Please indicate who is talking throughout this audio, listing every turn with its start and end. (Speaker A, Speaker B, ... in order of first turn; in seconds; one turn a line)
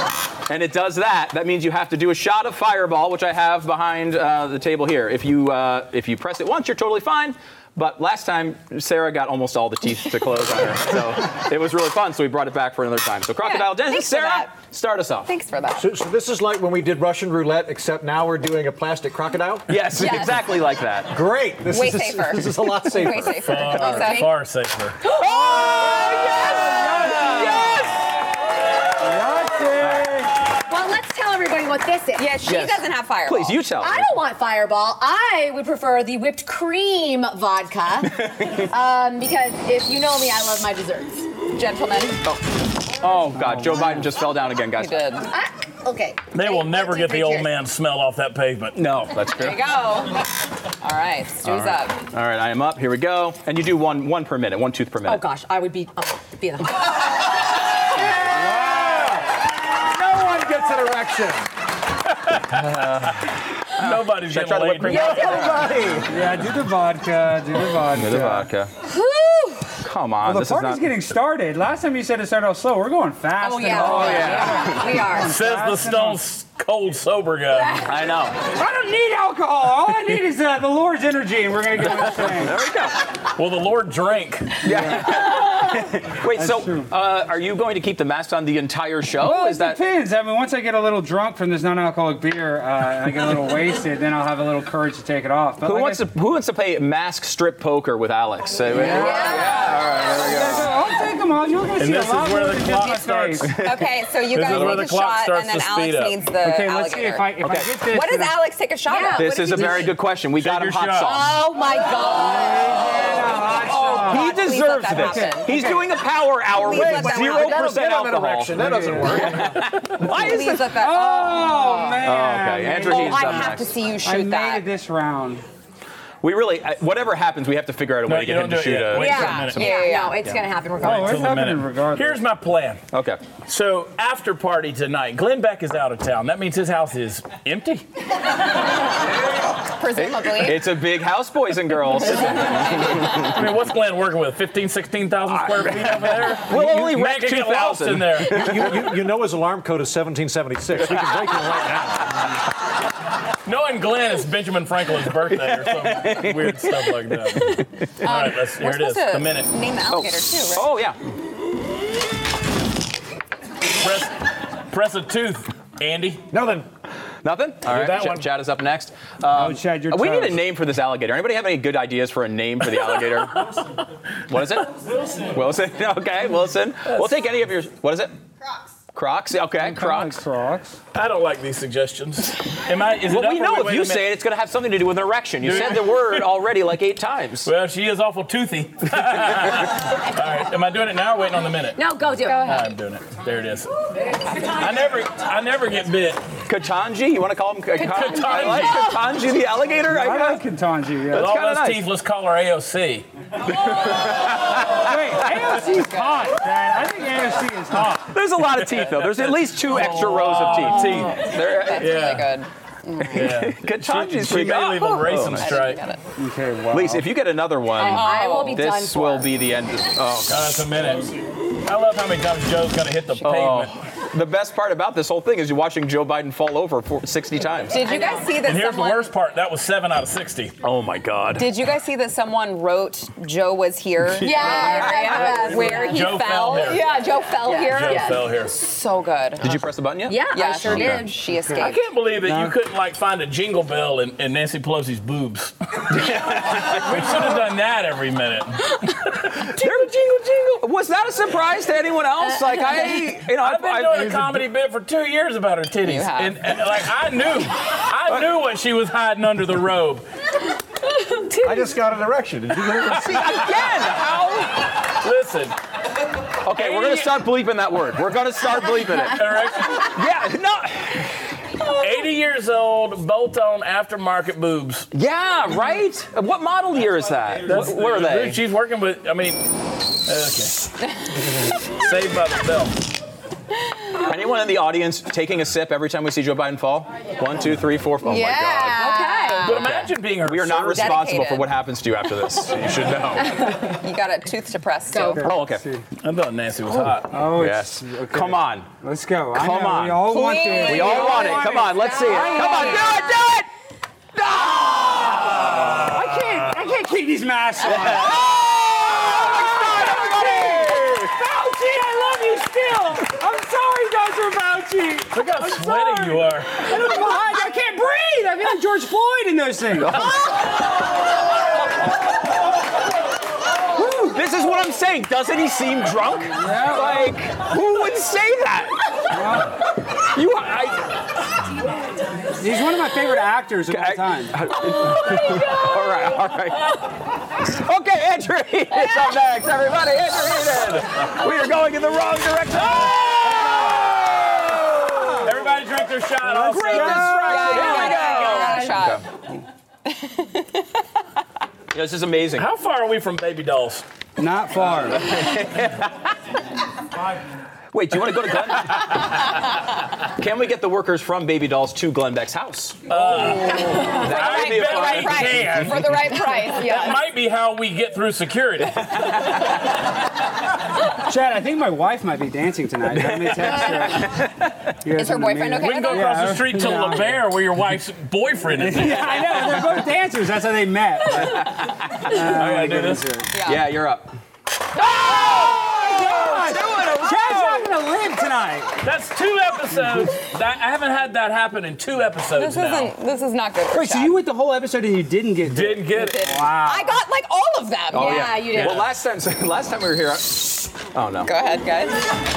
Speaker A: 0.5-15.3
Speaker B: 13.4-14.5
Speaker B: 15.2-15.9
Speaker C: 15.8-19.9
Speaker A: 19.7-21.2
Speaker B: 20.0-20.4
Speaker C: 21.1-23.7
Speaker B: 21.7-24.3
Speaker D: 23.4-25.0
Speaker E: 23.9-24.2
Speaker A: 25.2-28.0
Speaker F: 25.3-27.8
Speaker F: 29.0-30.3
Speaker A: 29.8-30.1
Speaker E: 30.7-32.4
Speaker B: 32.2-33.6
Speaker A: 32.5-34.1
Speaker E: 33.8-41.3
Speaker A: 38.1-38.7
Speaker B: 41.5-42.2
Speaker A: 42.2-45.1
Speaker F: 43.4-44.1
Speaker B: 44.8-45.3
Speaker E: 45.3-47.5
Speaker D: 46.3-48.8
Speaker A: 48.8-49.7
Speaker B: 49.4-50.2
Speaker B: 50.8-52.0
Speaker A: 51.4-55.3
Speaker E: 55.0-57.0
Speaker F: 58.2-59.3
Speaker C: 58.8-59.1
Speaker C: 59.9-61.5
Speaker D: 62.1-63.2
Speaker A: 62.5-65.7
Speaker D: 63.8-65.6
Speaker C: 64.8-66.2
Speaker F: 66.0-68.5
Speaker A: 67.9-68.7
Speaker E: 68.9-69.8
Speaker A: 69.8-71.0
Speaker F: 70.2-76.2
Speaker E: 73.4-75.3
Speaker A: 73.8-74.8
Speaker D: 75.2-77.9
Speaker E: 77.5-77.8
Speaker A: 77.8-78.5
Speaker F: 78.5-82.6
Speaker A: 82.0-83.0
Speaker D: 83.3-84.6
Speaker A: 84.6-89.8
Speaker F: 84.7-85.8
Speaker F: 86.3-86.9
Speaker F: 89.2-96.1
Speaker A: 95.6-100.8
Speaker F: 98.7-99.4
Speaker E: 98.9-99.8
Speaker B: 99.0-99.6
Speaker F: 100.2-103.6
Speaker D: 101.8-103.6
Speaker B: 103.6-107.3
Speaker D: 104.3-106.2
Speaker A: 104.4-104.9
Speaker F: 106.4-108.4
Speaker A: 107.4-107.7
Speaker B: 107.9-110.0
Speaker E: 108.9-109.9
Speaker A: 109.2-111.5
Speaker D: 110.3-111.3
Speaker E: 111.0-113.0
Speaker F: 112.0-115.8
Speaker B: 113.6-115.7
Speaker A: 113.8-120.8
Speaker B: 116.5-117.7
Speaker C: 116.5-119.7
Speaker F: 118.6-119.1
Speaker B: 120.0-122.0
Speaker F: 120.7-125.4
Speaker A: 122.0-123.8
Speaker B: 122.9-124.7
Speaker A: 126.2-129.7
Speaker D: 128.1-129.7
Speaker E: 128.9-131.2
Speaker B: 129.0-130.2
Speaker F: 130.8-132.2
Speaker D: 130.8-132.8
Speaker A: 132.9-133.2
Speaker D: 133.5-137.8
Speaker B: 139.7-140.7
Speaker A: 140.0-143.4
Speaker D: 143.0-148.6
Speaker A: 145.3-148.8
Speaker C: 148.2-152.4
Speaker D: 153.4-159.5
Speaker A: 155.3-157.7
Speaker B: 158.0-160.7
Speaker A: 159.9-161.0
Speaker D: 163.8-164.2
Speaker D: 164.7-166.2
Speaker C: 166.3-166.7
Speaker A: 167.2-173.6
Speaker C: 167.7-168.3
Speaker F: 169.3-170.5
Speaker A: 174.3-174.8
Speaker A: 175.3-178.1
Speaker A: 178.9-180.2
Speaker F: 179.6-180.8
Speaker D: 180.9-184.1
Speaker A: 183.1-187.5
Speaker D: 185.4-186.3
Speaker D: 187.4-191.8
Speaker A: 189.1-189.5
Speaker E: 191.8-192.6
Speaker B: 192.3-192.6
Speaker D: 192.3-193.7
Speaker D: 194.3-196.2
Speaker A: 196.5-200.4
Speaker D: 197.8-198.9
Speaker E: 198.0-198.7
Speaker F: 199.8-201.3
Speaker A: 201.1-201.9
Speaker D: 201.1-203.1
Speaker A: 203.5-205.6
Speaker F: 204.8-208.2
Speaker A: 208.1-212.2
Speaker D: 208.4-211.3
Speaker B: 210.6-213.2
Speaker D: 211.8-212.4
Speaker A: 213.0-215.6
Speaker D: 213.1-215.8
Speaker B: 215.3-216.0
Speaker F: 216.2-217.1
Speaker A: 216.7-220.8
Speaker E: 217.7-219.4
Speaker B: 217.8-218.7
Speaker D: 220.3-223.7
Speaker A: 223.2-227.8
Speaker B: 227.7-229.1
Speaker E: 227.8-228.4
Speaker D: 228.4-230.6
Speaker A: 230.6-231.5
Speaker B: 231.4-239.6
Speaker E: 234.2-238.3
Speaker A: 234.2-235.5
Speaker D: 235.3-237.0
Speaker D: 237.7-238.5
Speaker A: 239.4-241.0
Speaker E: 240.1-241.2
Speaker B: 240.3-241.8
Speaker F: 241.3-242.6
Speaker D: 241.6-249.3
Speaker A: 245.9-246.8
Speaker A: 249.4-254.4
Speaker D: 253.3-260.1
Speaker B: 255.8-256.4
Speaker C: 261.4-263.5
Speaker A: 262.9-264.7
Speaker D: 265.0-265.6
Speaker A: 266.4-271.1
Speaker D: 266.5-267.2
Speaker D: 269.1-269.9
Speaker D: 271.8-274.9
Speaker A: 274.9-278.4
Speaker D: 277.4-279.5
Speaker D: 280.0-280.7
Speaker D: 281.6-282.8
Speaker A: 284.0-288.9
Speaker B: 288.1-289.7
Speaker E: 288.7-289.6
Speaker D: 289.4-291.1
Speaker A: 289.4-293.6
Speaker B: 290.7-291.5
Speaker B: 293.4-295.2
Speaker E: 294.9-295.2
Speaker F: 295.2-295.8
Speaker A: 295.2-295.6
Speaker D: 296.0-297.2
Speaker F: 296.8-302.7
Speaker A: 297.2-298.7
Speaker A: 299.3-303.5
Speaker B: 300.1-303.0
Speaker E: 300.5-303.1
Speaker A: 304.2-306.0
Speaker F: 305.2-320.1
Speaker A: 307.6-311.1
Speaker D: 315.1-316.5
Speaker A: 319.8-320.4
Speaker A: 323.7-329.0
Speaker F: 326.4-327.1
Speaker F: 329.1-329.5
Speaker A: 330.0-330.9
Speaker F: 332.4-334.4
Speaker A: 333.7-345.3
Speaker D: 345.2-347.2
Speaker F: 346.2-347.8
Speaker A: 346.5-349.0
Speaker B: 347.1-349.0
Speaker E: 347.5-348.8
Speaker B: 349.9-350.7
Speaker A: 351.7-352.5
Speaker D: 352.4-353.9
Speaker F: 354.2-355.1
Speaker A: 354.7-356.1
Speaker A: 357.7-359.3
Speaker A: 360.2-365.6
Speaker D: 362.9-369.1
Speaker B: 363.1-367.0
Speaker A: 368.9-369.5
Speaker F: 371.1-374.2
Speaker A: 372.9-374.5
Speaker F: 374.8-377.2
Speaker B: 375.0-376.4
Speaker D: 375.6-379.6
Speaker F: 378.5-383.3
Speaker A: 381.2-382.3
Speaker D: 382.1-383.1
Speaker B: 383.3-383.7
Speaker A: 383.4-384.1
Speaker A: 384.8-387.7
Speaker F: 385.0-388.8
Speaker B: 385.2-385.5
Speaker D: 388.8-392.9
Speaker B: 392.4-394.2
Speaker F: 393.7-397.0
Speaker D: 395.5-396.4
Speaker B: 396.0-398.4
Speaker A: 397.9-401.3
Speaker E: 398.0-398.9
Speaker D: 398.5-398.9
Speaker B: 401.2-402.0